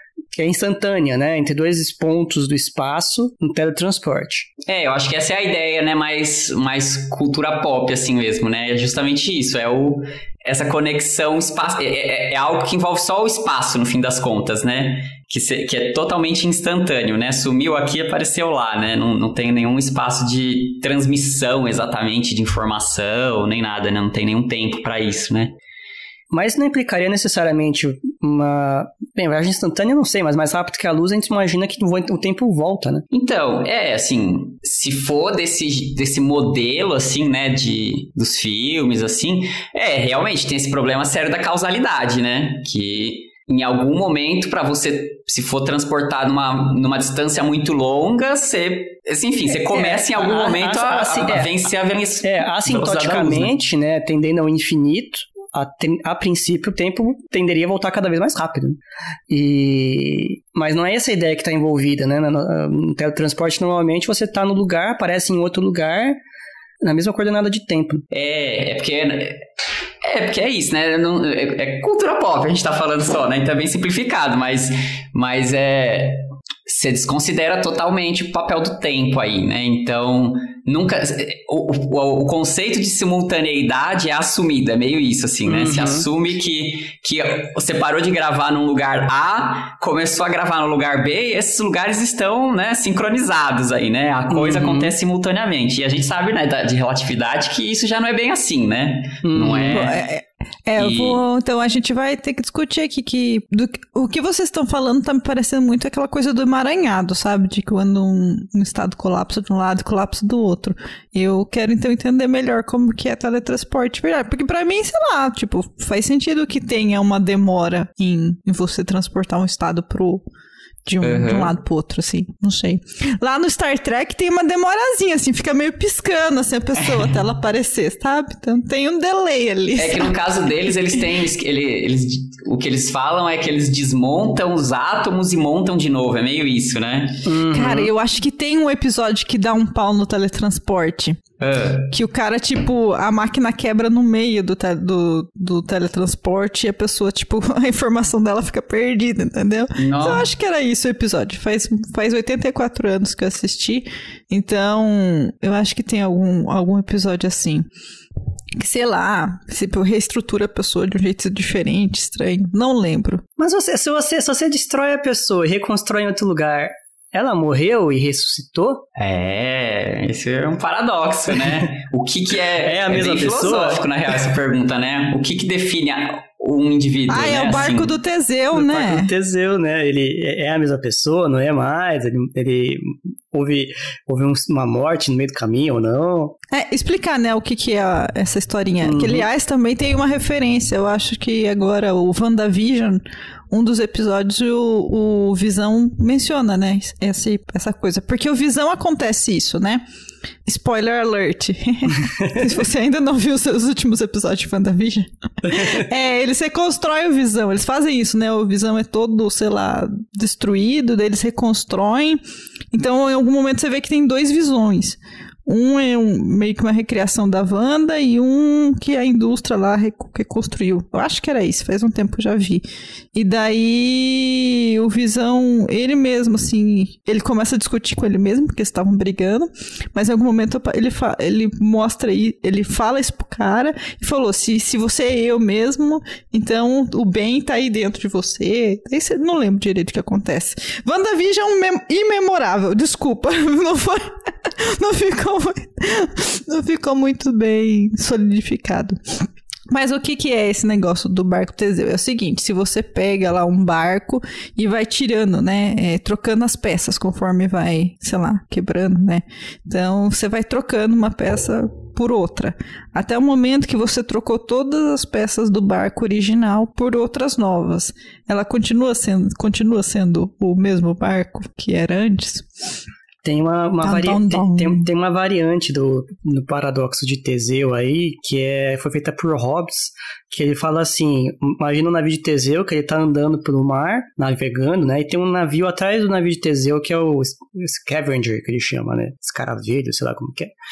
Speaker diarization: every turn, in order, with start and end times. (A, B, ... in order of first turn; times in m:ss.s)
0:00.3-0:04.5 A
0:04.7-0:25.5 B
0:26.3-0:33.0 A
0:33.1-0:53.5 B
0:49.7-0:51.5 A
0:52.2-1:06.2 A
1:06.8-1:08.0 A
1:08.1-1:09.4 B
1:10.0-1:40.0 B
1:25.5-1:26.1 A
1:34.3-1:34.9 A
1:39.2-1:39.9 A
1:39.7-2:00.2 C
1:40.8-1:41.2 B
2:00.9-2:10.4 C
2:01.0-2:01.5 B
2:09.8-2:17.2 B
2:17.2-2:17.9 A
2:17.5-2:21.2 C
2:21.4-2:21.9 B
2:21.9-2:37.6 C
2:29.8-2:30.3 B
2:38.6-2:43.2 C
2:43.4-2:48.8 A
2:49.0-2:58.0 B
2:52.6-2:53.9 A
2:57.1-2:59.1 C
2:58.5-3:06.4 A
3:06.5-3:19.8 C
3:08.8-3:09.3 A
3:20.4-3:32.2 C
3:32.7-4:32.5 C
4:33.2-4:50.5 A
4:33.8-4:34.9 C